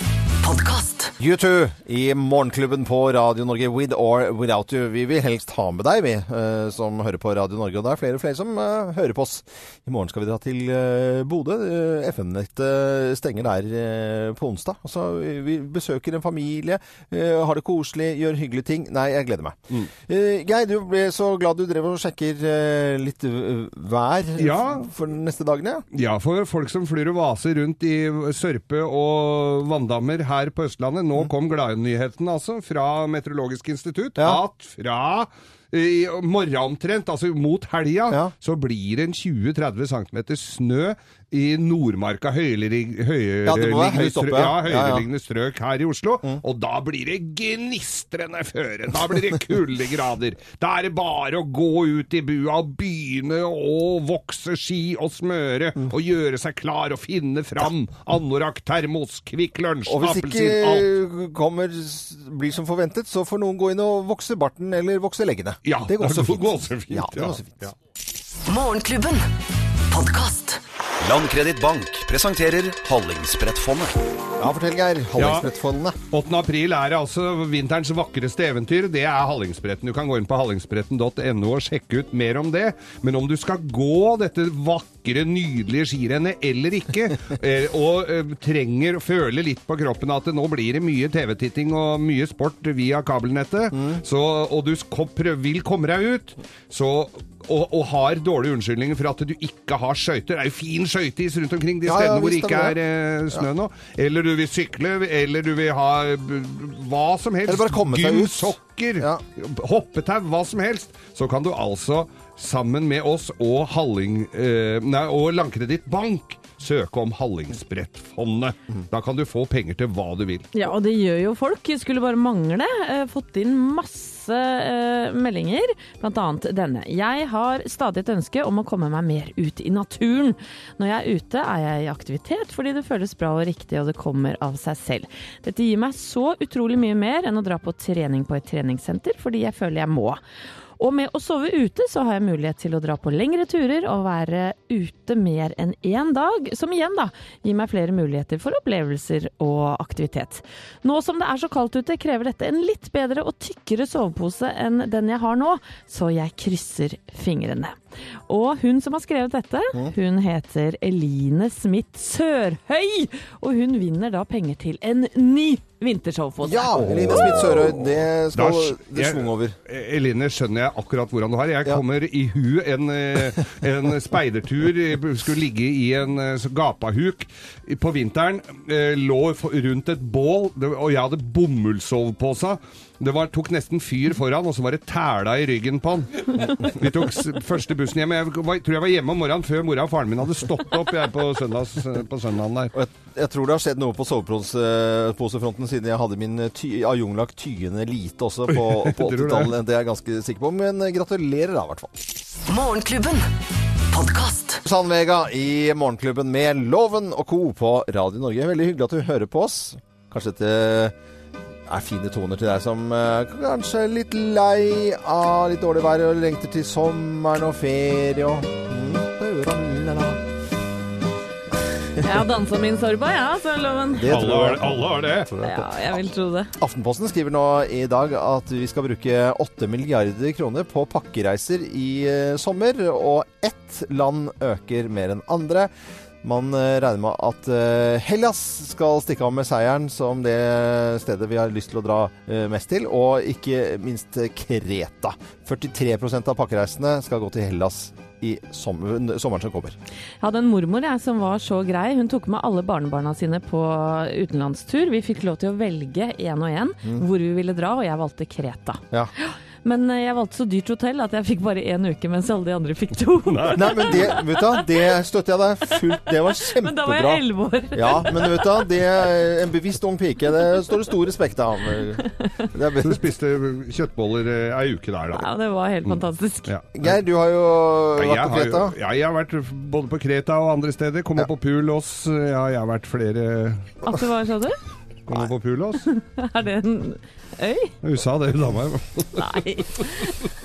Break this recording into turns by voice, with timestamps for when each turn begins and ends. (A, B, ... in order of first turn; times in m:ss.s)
0:00.4-0:01.1 A
0:01.2-0:25.8 B
0:24.4-0:24.8 C
0:25.9-1:00.9 C
0:43.4-0:45.0 B
0:59.9-1:07.7 B
1:05.6-1:07.7 C
1:08.5-1:09.3 A
1:09.8-1:10.6 A
1:11.0-1:14.0 D
1:14.4-1:16.0 B
1:15.2-1:15.5 C
1:16.1-2:00.5 C
1:33.7-1:34.0 B
1:41.8-1:42.8 B
1:47.5-1:49.2 B
2:00.5-2:20.2 E
2:20.8-2:37.8 E
2:38.3-2:47.3 E
2:46.4-2:49.6 B
2:46.8-3:12.7 C
3:12.7-3:22.0 B
3:18.5-3:19.5 C
3:22.5-3:23.3 A
3:23.9-3:24.6 A
3:24.6-3:30.9 B
3:31.7-3:40.2 B
3:42.0-3:44.2 E
3:43.9-3:45.7 B
3:44.1-3:45.3 C
3:45.4-3:46.5 E
3:46.6-3:55.7 B
3:56.2-4:09.8 B
4:10.2-4:24.7 E
4:23.3-4:24.1 C
4:23.5-4:33.1 B
4:26.3-4:28.7 E
4:32.0-4:32.4 E
4:32.8-4:35.3 C
4:35.2-4:36.5 E
4:35.8-4:37.0 C
4:36.8-4:38.8 B
4:38.0-4:43.8 C
4:43.8-4:44.6 E
4:45.1-4:45.9 C
4:45.9-4:47.8 E
4:47.8-4:49.9 C
4:49.2-4:50.2 E